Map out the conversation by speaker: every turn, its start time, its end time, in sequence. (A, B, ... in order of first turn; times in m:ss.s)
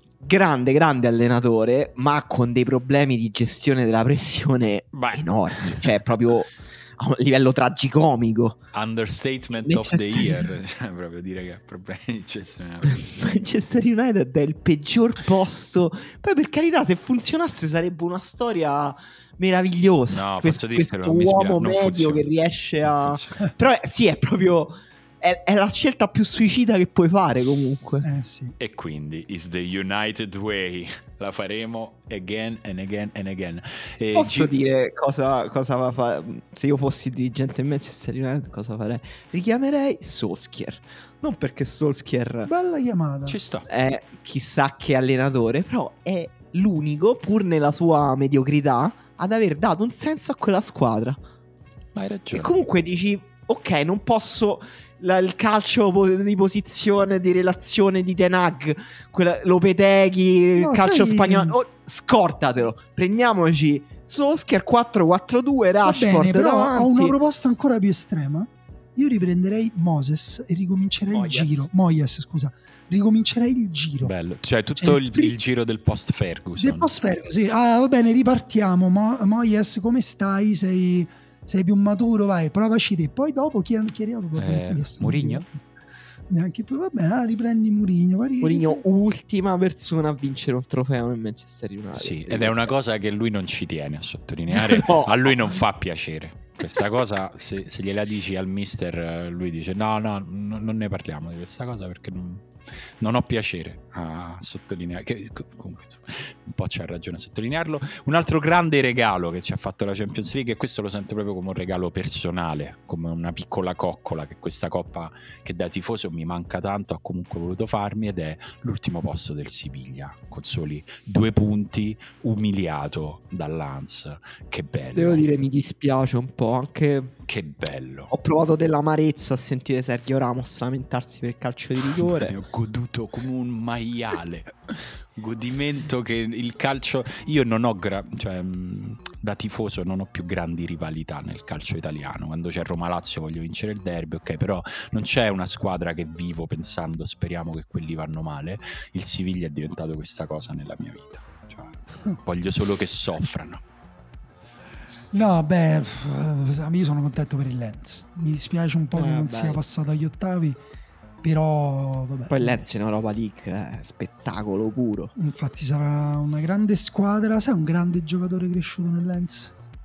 0:00.2-0:08.6 A
0:04.9-0:05.9 B
0:08.7-0:13.3 B
0:09.6-0:10.5 A
0:12.8-0:28.1 A
0:20.1-0:22.3 B
0:22.8-0:23.4 B
0:28.0-0:28.6 C
0:28.6-0:34.5 B
0:34.1-0:42.5 A
0:42.4-0:43.4 C
0:43.2-0:43.7 B
0:43.7-0:51.2 A
0:51.9-0:52.6 B
0:52.3-1:07.2 A
1:00.6-1:01.6 C
1:05.8-1:14.1 C
1:11.1-1:11.7 A
1:14.0-1:16.9 B
1:14.8-1:15.3 C
1:16.6-1:25.6 C
1:24.4-1:25.4 B
1:26.3-1:28.8 C
1:28.4-1:32.7 A
1:31.9-2:05.3 B
1:34.5-1:35.4 A
2:04.9-2:07.1 A
2:07.3-2:08.1 B
2:08.1-2:12.4 A
2:11.8-2:33.6 B
2:35.1-2:40.6 C
2:38.9-2:39.6 A
2:41.2-2:42.6 C
2:42.3-2:45.1 A
2:45.1-2:49.5 C